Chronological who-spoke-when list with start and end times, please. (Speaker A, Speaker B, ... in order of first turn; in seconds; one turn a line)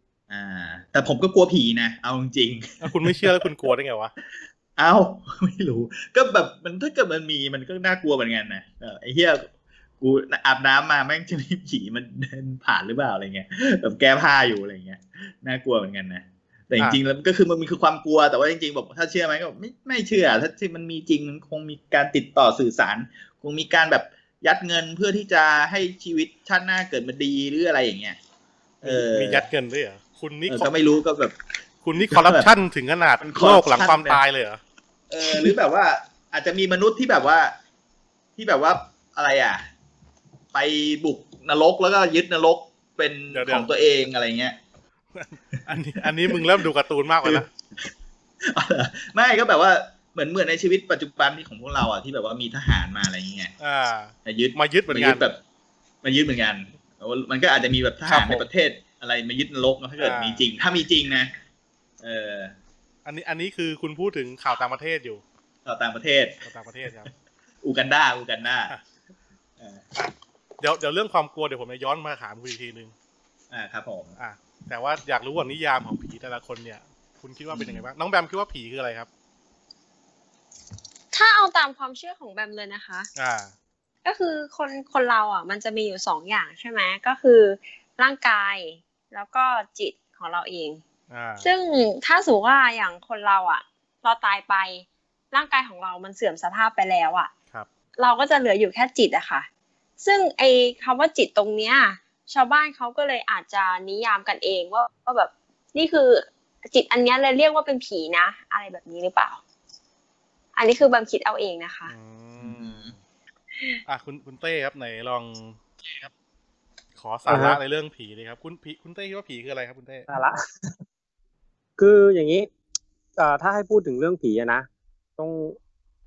Speaker A: 0.3-3.5
Speaker B: 2.8-4.1
Speaker A: 4.8-9.5
Speaker A: 10.0-28.2
Speaker A: 28.8-29.5
Speaker B: 28.8-30.7
Speaker A: 30.5-31.4
Speaker B: 31.8-34.6
Speaker A: 32.0-32.5
Speaker A: 33.2-34.2
Speaker A: 35.1-37.5
Speaker A: 38.4-39.6
Speaker A: 40.5-44.6
Speaker B: 43.3-43.7
Speaker B: 45.1-47.5
Speaker A: 46.3-46.6
Speaker A: 47.2-47.9
Speaker A: 48.4-53.5
Speaker B: 53.6-55.2
Speaker A: 54.2-55.4
Speaker A: 56.0-61.3
Speaker B: 58.1-58.5
Speaker B: 60.0-60.5
Speaker A: 62.0-62.5
Speaker B: 63.0-65.2
Speaker A: 65.7-66.4
Speaker B: 66.5-67.1
Speaker A: 67.6-68.7
Speaker A: 69.6-69.8
Speaker B: 70.6-72.9
Speaker A: 73.5-74.2
Speaker B: 74.2-79.1
Speaker A: 77.5-77.8
Speaker C: 81.1-83.1
Speaker B: 83.2-83.5
Speaker C: 84.0-90.8
Speaker B: 91.1-91.5
Speaker C: 91.4-97.3
Speaker C: 98.0-99.5
Speaker C: 100.0-109.4
Speaker C: 110.6-111.9
Speaker B: 111.9-113.0
Speaker A: 112.4-112.9
Speaker B: 113.9-116.1
Speaker B: 117.0-120.1
Speaker D: 117.3-117.6
Speaker D: 120.1-120.8
Speaker D: 121.8-122.5
Speaker D: 123.2-124.7
Speaker D: 125.2-125.6